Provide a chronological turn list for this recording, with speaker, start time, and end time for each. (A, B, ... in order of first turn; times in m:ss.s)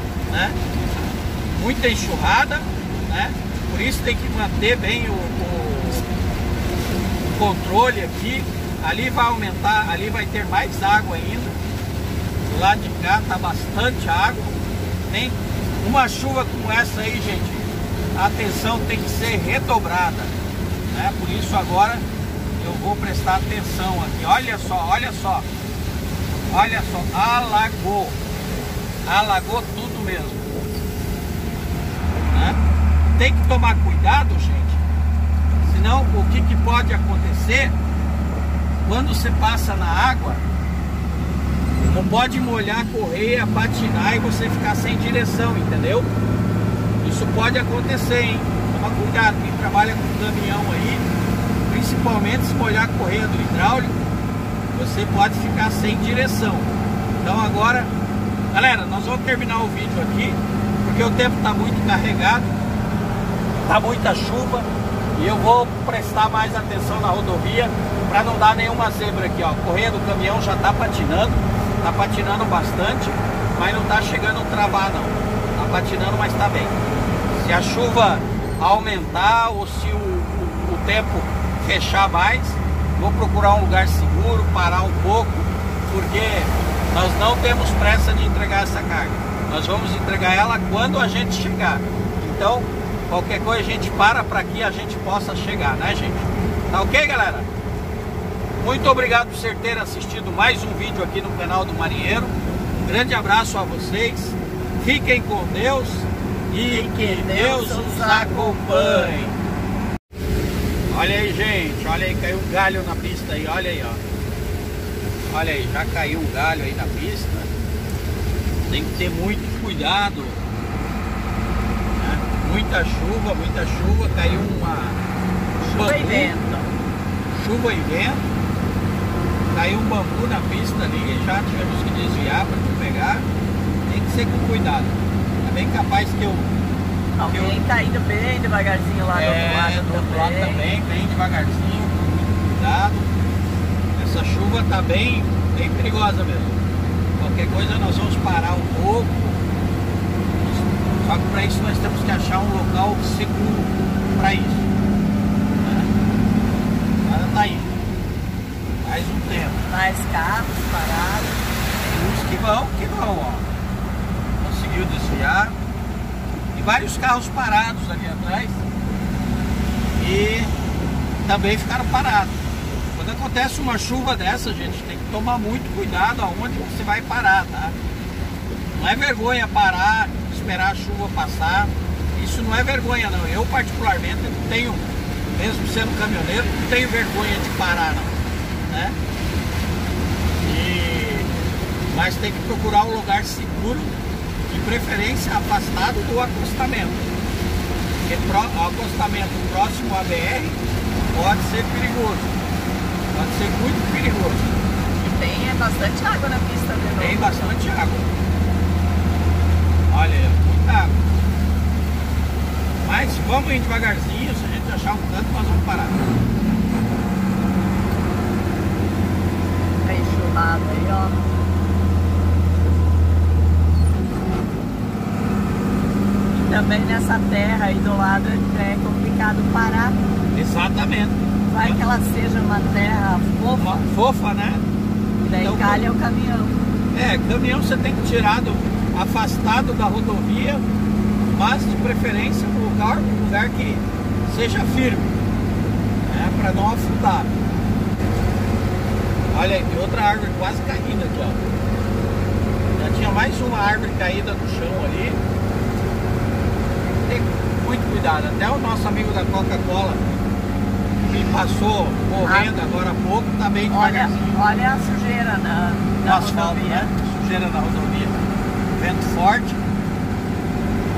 0:00.3-0:06.1 A
0:07.3-0:11.5 A
0:12.5-0:20.3 A
0:20.9-0:22.0 A
0:22.6-0:25.4 A
0:26.5-0:28.2 A
0:29.0-0:30.7 A
0:32.3-0:32.6 A
0:33.2-0:34.8 A
0:35.6-0:37.7 A
0:38.8-0:40.4 A
0:41.8-0:46.1 A
0:47.0-0:51.0 A
0:51.7-0:54.1 A
0:54.7-0:57.9 A
0:58.5-1:02.5 A
1:03.6-1:16.8 A
1:17.3-1:37.5 A
1:38.6-1:49.3 A
1:46.6-1:49.3 B
1:50.9-1:54.0 A
1:55.3-1:57.5 A
1:58.7-2:00.4 A
2:02.0-2:05.0 A
2:05.6-2:06.7 B
2:05.7-2:06.3 A
2:07.3-2:08.3 A
2:09.5-2:13.2 A
2:13.8-2:16.5 A
2:17.2-2:20.6 B
2:17.3-2:17.6 A
2:19.1-2:23.1 A
2:24.0-2:26.6 A
2:27.2-2:29.3 A
2:30.4-2:34.7 A
2:35.6-2:35.9 A
2:37.0-2:37.7 A
2:38.8-2:39.6 A
2:39.6-2:41.4 B
2:41.9-2:43.4 A
2:44.4-2:45.6 A
2:46.5-2:48.6 A
2:50.0-2:50.5 A
2:51.2-2:52.3 A
2:52.9-2:57.7 A
2:58.7-3:08.2 A
3:08.7-3:09.0 A
3:10.4-3:11.3 A
3:11.9-3:13.9 A
3:14.5-3:17.1 A
3:18.0-3:20.6 A
3:21.1-3:22.4 A
3:23.1-3:24.6 A
3:25.0-3:27.5 B
3:27.0-3:28.1 A
3:29.9-3:31.0 A
3:32.8-3:36.0 A
3:39.8-3:41.2 B
3:46.3-3:50.0 B
3:50.3-3:51.8 A
3:51.5-3:53.8 B
3:53.6-3:54.6 A
3:55.2-3:56.6 B
3:55.4-3:55.9 A
3:56.9-4:00.6 A
4:01.3-4:05.2 A
4:06.0-4:07.3 A
4:09.3-4:11.4 A
4:12.8-4:15.2 A
4:16.8-4:20.2 A
4:21.0-4:24.4 A
4:22.2-4:22.5 B
4:23.7-4:26.9 B
4:26.0-4:29.6 A